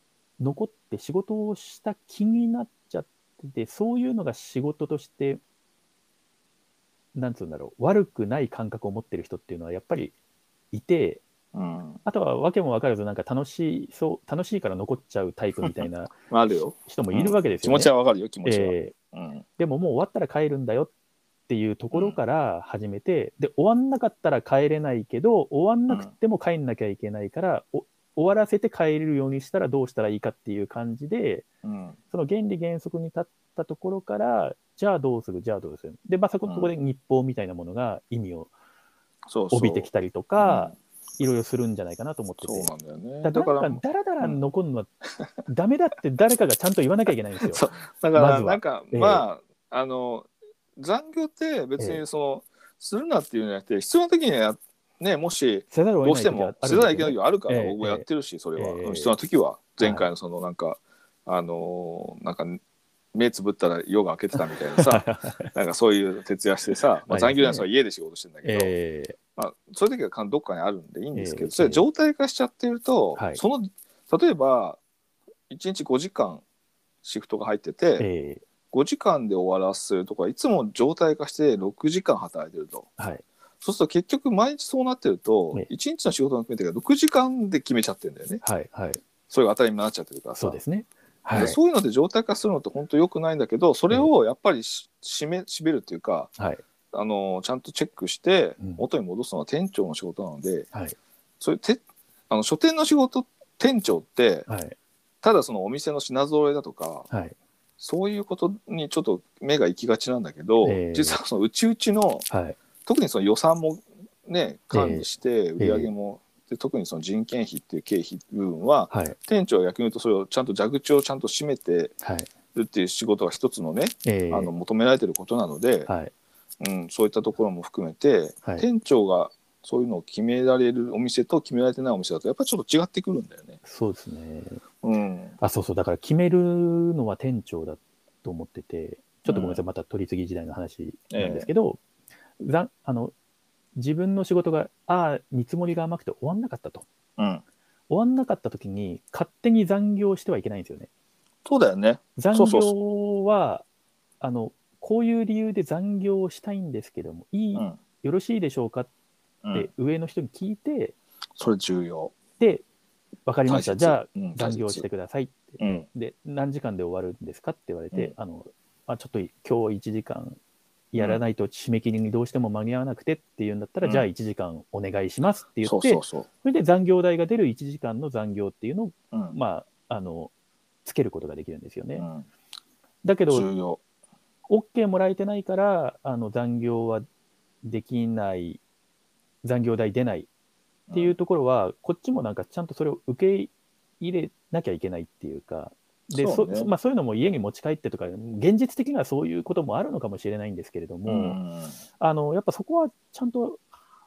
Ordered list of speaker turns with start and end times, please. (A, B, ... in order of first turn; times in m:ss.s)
0:00.4-0:05.4 A
0:07.1-0:10.1 A
0:10.7-0:11.2 A
0:11.5-0:12.0 B
0:12.0-0:16.1 A
0:15.6-0:19.4 B
0:16.9-0:17.9 A
0:18.4-0:18.9 A
0:19.6-0:20.9 A
0:21.5-0:31.4 A
0:21.9-0:22.2 B
0:31.6-0:32.0 B
0:32.1-0:38.5 A
0:36.4-0:36.7 B
0:39.3-0:40.7 B
0:39.5-0:42.7 A
0:42.4-0:44.4 B
0:43.2-0:44.9 A
0:45.4-0:47.6 A
0:47.4-1:02.6 B
0:48.1-0:49.2 A
0:55.7-0:59.1 A
0:59.8-1:00.1 A
1:03.1-1:08.7 B
1:04.3-1:05.5 A
1:07.1-1:07.7 A
1:08.4-1:09.2 A
1:09.4-1:14.8 B
1:11.1-1:11.8 A
1:13.2-1:13.4 A
1:15.5-1:16.4 B
1:17.0-1:18.1 B
1:18.0-1:18.4 A
1:18.7-1:22.9 B
1:23.0-1:23.2 A
1:23.6-1:28.4 B
1:28.4-1:29.0 A
1:29.3-1:30.6 B
1:30.4-1:31.6 A
1:31.3-1:36.3 B
1:36.4-1:36.6 A
1:36.9-1:40.7 B
1:41.4-1:44.5 B
1:44.5-1:44.7 A
1:45.2-1:47.1 B
1:47.1-1:47.4 A
1:47.8-1:52.2 B
1:50.6-1:51.2 A
1:52.3-1:52.6 A
1:52.8-2:01.9 B
1:54.7-1:55.1 A
1:55.6-1:55.9 A
1:58.9-1:59.2 A
2:02.0-2:02.3 A
2:02.5-2:05.9 B
2:04.0-2:04.5 A
2:05.9-2:06.1 A
2:06.6-2:13.6 B
2:13.6-2:14.6 A
2:14.8-2:15.4 B
2:15.4-2:21.8 A
2:19.3-2:19.6 B
2:21.1-2:21.5 B
2:22.4-2:23.1 A
2:23.7-2:26.8 A
2:27.2-2:27.4 B
2:27.9-2:30.9 A
2:31.4-2:32.7 B
2:32.2-2:33.6 A
2:34.2-2:38.9 A
2:39.4-2:39.7 B
2:39.5-2:41.0 A
2:41.4-2:42.1 B
2:42.4-2:42.6 A
2:43.2-2:50.4 A
2:43.5-2:44.8 B
2:45.6-2:45.8 B
2:50.9-3:00.3 A
2:51.0-2:51.2 B
2:55.6-2:56.3 B
2:59.1-2:59.4 B
3:00.8-3:02.0 A
3:02.0-3:02.2 B
3:03.0-3:03.5 A
3:03.3-3:03.8 B
3:04.5-3:07.0 A
3:07.6-3:08.6 A
3:09.4-3:10.3 A
3:10.9-3:11.2 B
3:10.9-3:21.4 A
3:16.1-3:16.7 B
3:21.1-3:21.8 B
3:22.0-3:23.6 A